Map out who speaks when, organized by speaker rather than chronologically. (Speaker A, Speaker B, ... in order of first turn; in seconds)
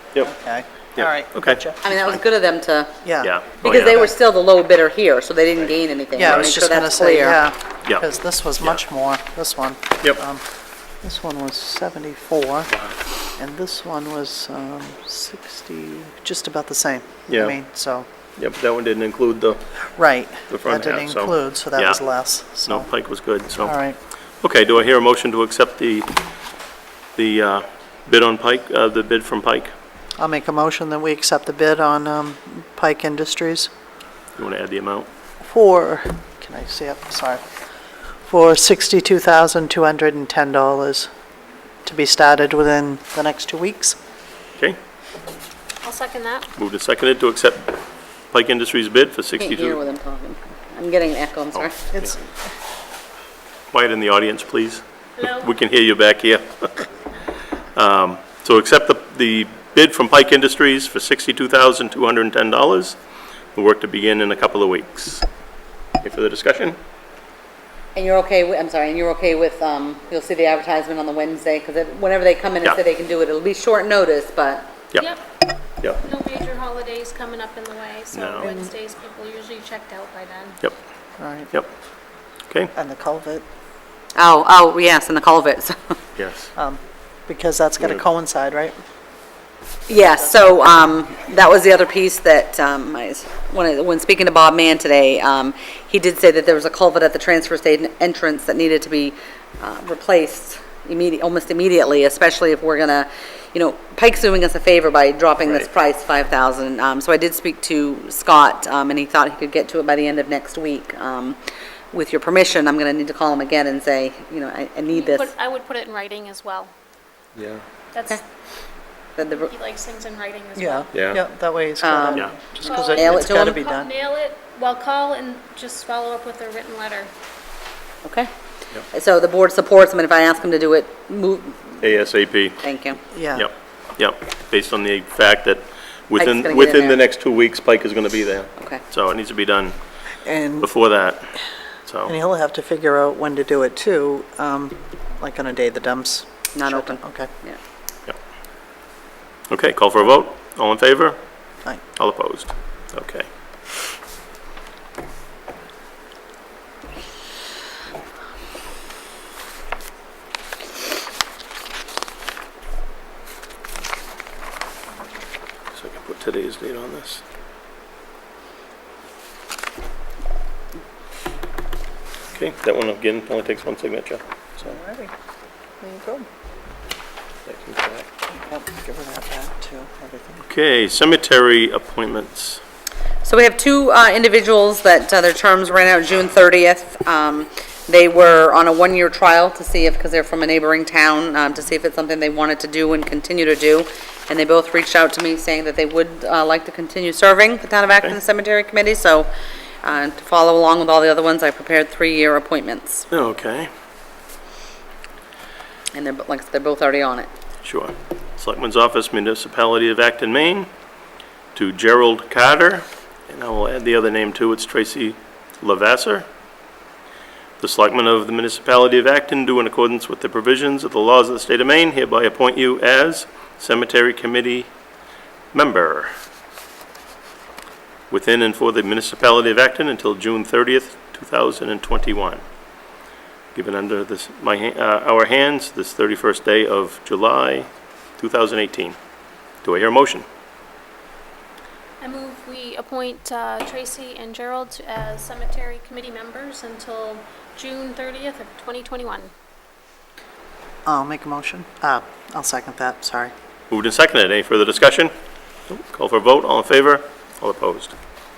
Speaker A: 0.2-1.8, 3.0-4.1, 6.1-10.4, 11.0-12.7, 13.4-18.1, 19.9-22.9, 23.6-24.0, 30.2-33.7, 35.4-37.4, 38.2-41.1, 41.8-44.0, 51.9-52.3, 78.4-78.7, 81.2-81.5, 82.7-83.4, 86.5-88.8, 90.0-90.4, 120.5-123.9, 133.1-133.5, 140.2-140.7, 142.1-147.3, 174.6-175.1, 175.8-176.3, 178.3-180.4, 250.8-253.3
Speaker B: 1.0-2.2, 3.2-4.0, 17.3-17.5, 18.4-19.6, 20.5-22.0, 22.6-23.7, 24.4-26.2, 27.1-29.7, 34.4-35.1, 46.6-47.8, 48.3-49.8, 51.5-52.1, 53.7-56.9, 57.8-63.0, 63.5-65.2, 66.0-66.8, 78.1-78.5, 86.2-86.5, 117.4-117.6, 120.9-121.2, 131.8-132.6, 133.3-139.7, 140.6-141.3, 141.9-142.1, 149.5-151.2, 151.9-153.3, 165.7-167.2, 172.3-174.7, 177.5-178.1, 180.4-182.6, 203.1-203.7, 207.6-210.7, 211.5-216.2, 217.6-224.7, 225.5-226.1, 228.1-232.4, 233.5-237.7, 238.2-238.9, 239.6-240.2, 253.7-255.1, 255.7-257.9
Speaker C: 1.8-3.0, 3.6-7.4, 49.4-51.8, 67.9-74.7, 84.2-86.0, 89.9-111.4, 111.9-115.3, 119.2-119.5, 121.8-122.3, 122.9-123.6, 128.0-128.3, 128.9-131.8, 132.6-133.0, 136.2-137.0, 146.5-147.6, 183.2-199.3, 199.8-203.1, 205.9-207.3
Speaker D: 45.8-46.5, 55.2-55.5, 75.0-75.3, 76.0-80.6, 114.9-116.7, 117.9-118.2, 119.2-121.0, 122.6-127.1, 242.0-249.3